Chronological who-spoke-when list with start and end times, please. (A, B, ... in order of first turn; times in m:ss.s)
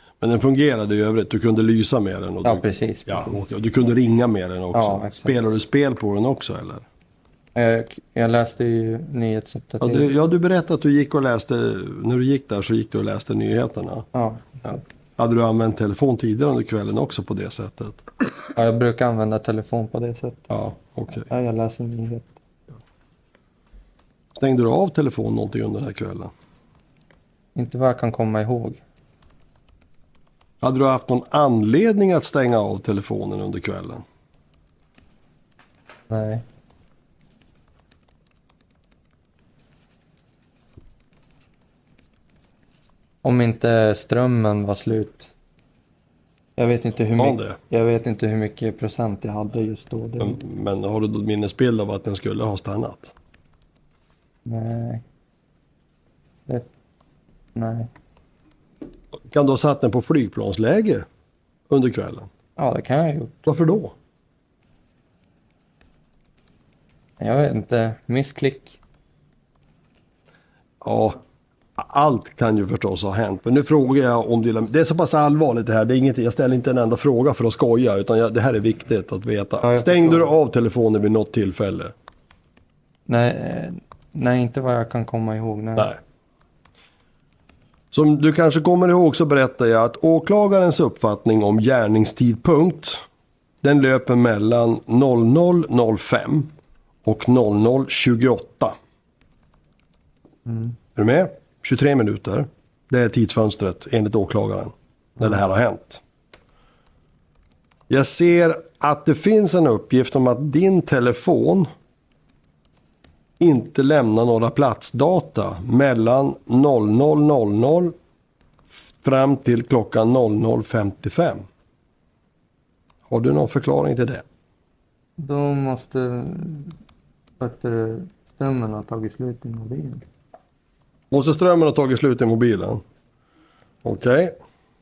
0:00.2-0:06.8 A
0:02.4-0:03.4 B
0:04.7-0:05.3 B
0:07.5-0:10.1 B
0:09.8-0:14.1 A
0:14.1-0:14.4 B
0:14.6-0:18.0 A
0:18.5-0:20.5 B
0:20.5-0:21.3 A
0:21.3-0:22.3 B
0:24.4-0:26.3 A
0:27.6-0:28.8 B
0:30.6-0:34.0 A
0:36.1-0:36.4 B
0:43.2-0:45.3 B
0:46.6-0:50.4 B
0:47.2-0:47.6 A
0:50.2-0:53.1 A
0:54.4-0:55.0 B
0:57.5-0:57.9 B
0:59.3-1:01.0 A
1:01.7-1:02.3 A
1:02.6-1:03.4 B
1:03.4-1:03.9 A
1:07.2-1:08.8 B
1:10.8-1:11.2 A
1:11.8-1:21.9 A
1:19.6-1:20.3 B
1:23.1-1:25.9 B
1:27.9-1:33.0 A
1:33.6-1:36.5 A
1:37.0-1:38.8 A
1:40.5-1:40.7 B
1:40.9-1:46.0 A
1:47.9-1:51.7 A
1:53.4-1:57.9 A
1:58.7-2:01.4 A
2:03.1-2:04.2 A
2:05.2-2:06.7 B
2:07.4-2:10.0 B
2:11.1-2:12.8 A
2:13.8-2:14.4 A